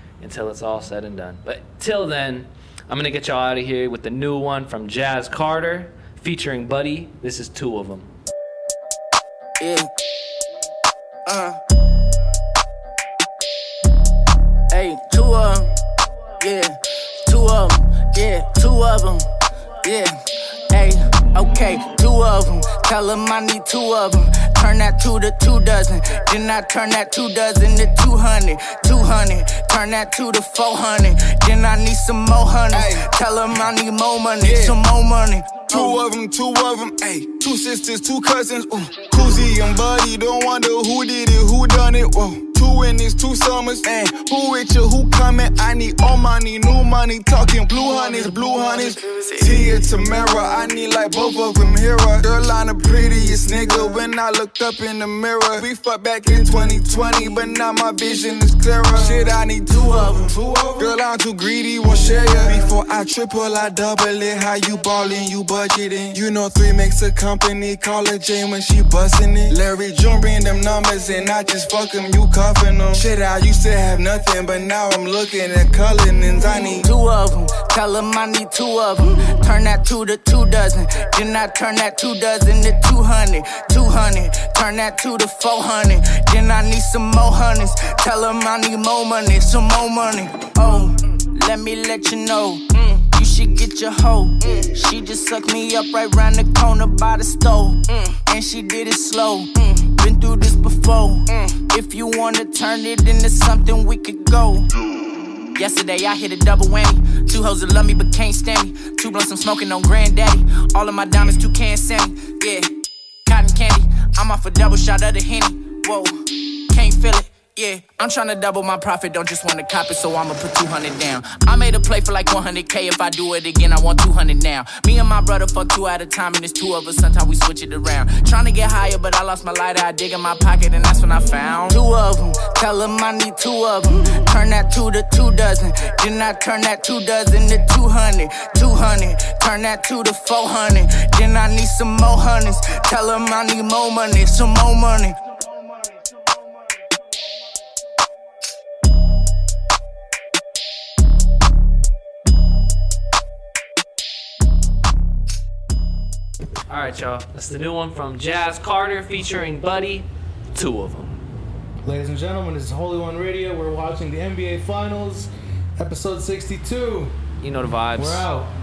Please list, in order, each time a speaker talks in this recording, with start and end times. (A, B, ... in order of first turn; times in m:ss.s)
0:00.2-0:08.1 A
0:09.6-0:09.9 B
0:11.2-0:11.6 B
0:14.7-0:15.7 B
0:16.4-0:19.3 B
0:19.8-0:20.2 B
0:20.7-0:36.0 B
0:32.7-0:33.1 C
0:34.4-0:34.8 C
0:35.7-1:16.9 C
0:59.8-1:00.3 B
1:16.5-1:44.7 B
1:45.6-1:52.7 B
1:53.2-2:25.2 B
2:36.7-2:41.2 A
2:41.8-2:47.2 D
2:47.4-2:48.3 A
2:48.0-2:48.5 D